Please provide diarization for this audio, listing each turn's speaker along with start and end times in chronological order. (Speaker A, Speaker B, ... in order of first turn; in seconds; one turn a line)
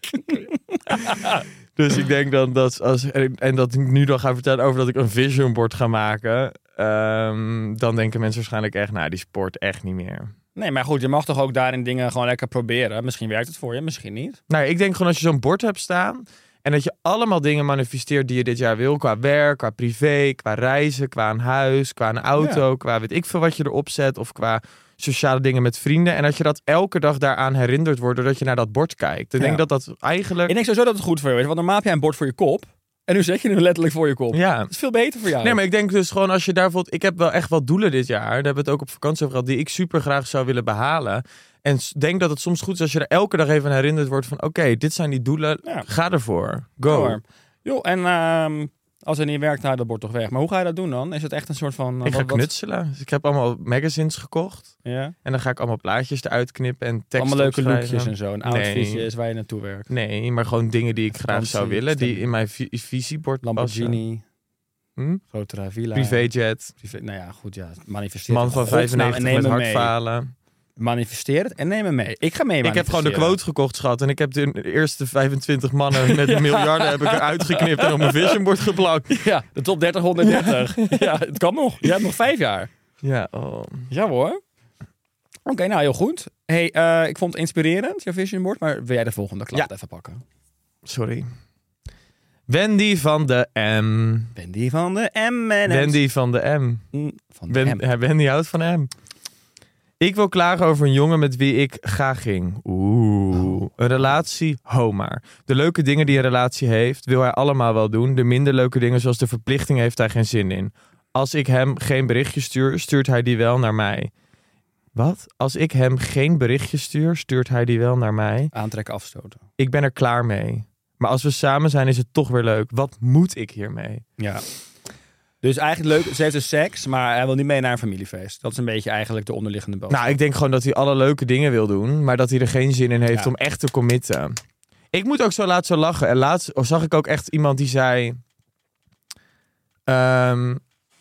Speaker A: 0.2-1.4
Speaker B: 1.8-10.3
Speaker A: 10.6-14.4
Speaker B: 14.5-30.5
Speaker A: 22.4-22.6
Speaker A: 29.4-29.6
Speaker A: 30.5-35.6
Speaker B: 34.3-34.7
Speaker B: 35.4-47.2
Speaker A: 46.9-52.5
Speaker B: 52.0-59.1
Speaker A: 54.8-55.1
Speaker A: 57.2-59.9
Speaker B: 59.9-64.0
Speaker A: 61.1-62.3
Speaker A: 63.4-64.2
Speaker B: 65.0-65.2
Speaker A: 65.3-69.9
Speaker B: 65.9-66.7
Speaker B: 68.3-70.3
Speaker A: 70.8-73.4
Speaker B: 72.6-79.2
Speaker A: 76.0-78.4
Speaker A: 79.1-82.7
Speaker B: 80.2-81.1
Speaker B: 83.0-83.9
Speaker A: 83.9-84.4
Speaker A: 85.5-90.2
Speaker B: 90.8-91.3
Speaker B: 92.5-94.3
Speaker A: 94.3-96.0
Speaker B: 95.7-96.8
Speaker A: 96.9-97.8
Speaker B: 97.5-98.9
Speaker B: 100.0-114.1
Speaker A: 103.3-103.6
Speaker B: 114.9-118.5
Speaker A: 118.5-119.4
Speaker B: 119.6-124.0
Speaker A: 124.2-124.4
Speaker A: 125.4-130.2
Speaker B: 129.9-134.3
Speaker B: 134.9-138.2
Speaker B: 139.9-140.6